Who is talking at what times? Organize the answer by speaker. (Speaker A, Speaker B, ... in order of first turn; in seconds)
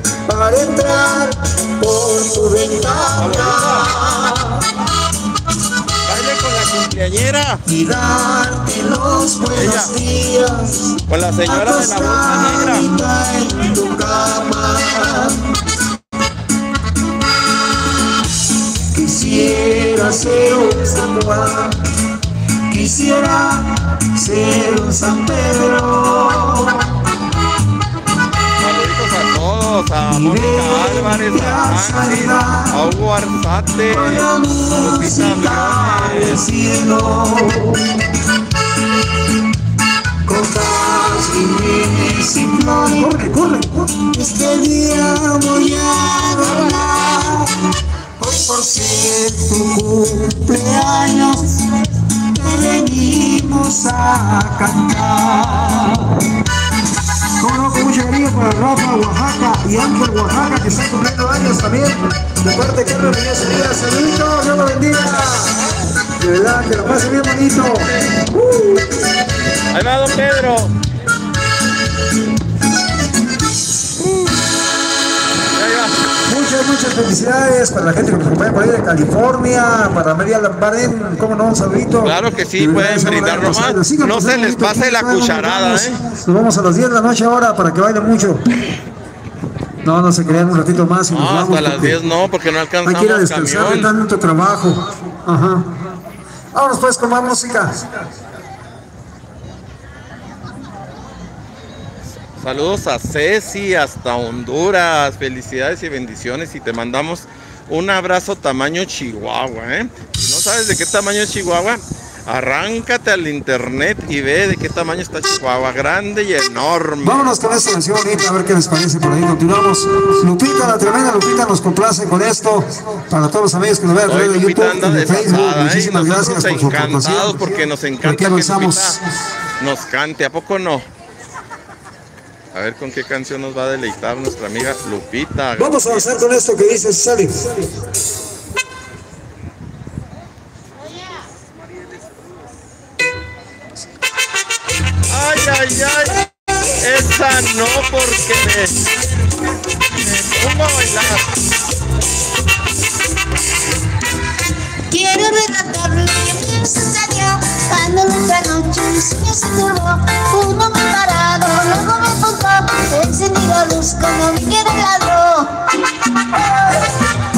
Speaker A: 0.2-4.7, 7.7-10.9, 11.4-15.5, 18.9-21.8, 22.7-27.0, 30.1-32.8, 33.9-38.0, 40.2-47.6, 48.2-56.4, 57.4-65.7, 66.2-69.1, 76.2-88.4, 89.8-92.0, 92.8-95.7, 96.5-97.8, 117.0-129.1, 135.6-137.6, 166.3-166.9
Speaker B: 3.1-3.9, 6.0-7.6, 9.5-9.9, 11.1-12.9, 28.6-34.3, 34.8-36.4, 69.7-70.7, 75.5-76.0, 82.0-86.0, 91.1-93.9, 102.4-117.3, 124.1-129.0, 129.6-130.8, 132.5-136.1, 145.1-148.9, 149.9-151.3
Speaker C: 154.9-165.5